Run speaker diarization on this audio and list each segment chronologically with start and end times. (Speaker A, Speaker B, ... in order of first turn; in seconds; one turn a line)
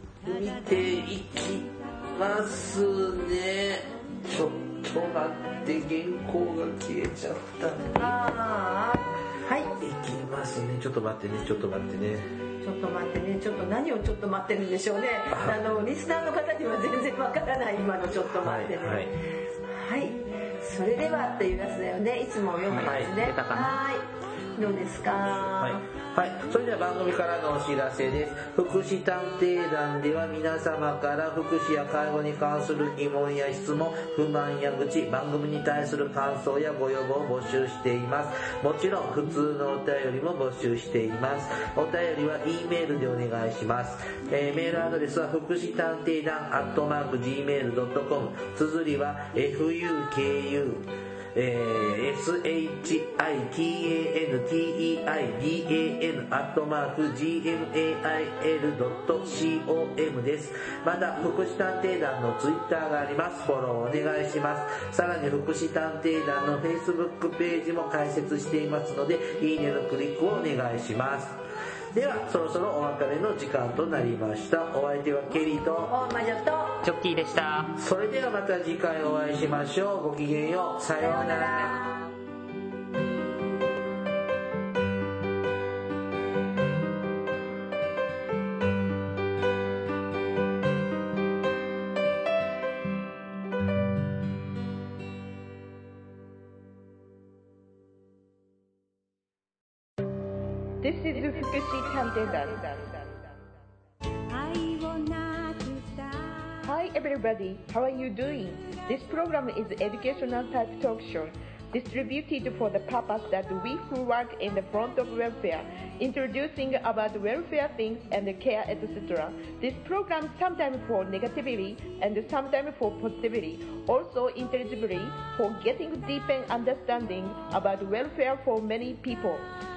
Speaker A: 0.2-8.2
Speaker B: 8.0-9.7
Speaker A: 9.7-12.3
Speaker B: 12.6-19.1
Speaker A: 15.3-15.6
Speaker A: 18.4-19.1
Speaker B: 19.6-25.9
Speaker C: 22.7-23.8
Speaker A: 22.8-23.1
Speaker A: 25.4-76.0
Speaker B: 75.8-76.8
Speaker C: 76.8-77.8
Speaker A: 77.8-81.8
Speaker B: 81.0-82.0
Speaker D: 100.8-103.0
Speaker E: 104.3-106.6
Speaker D: 106.6-129.5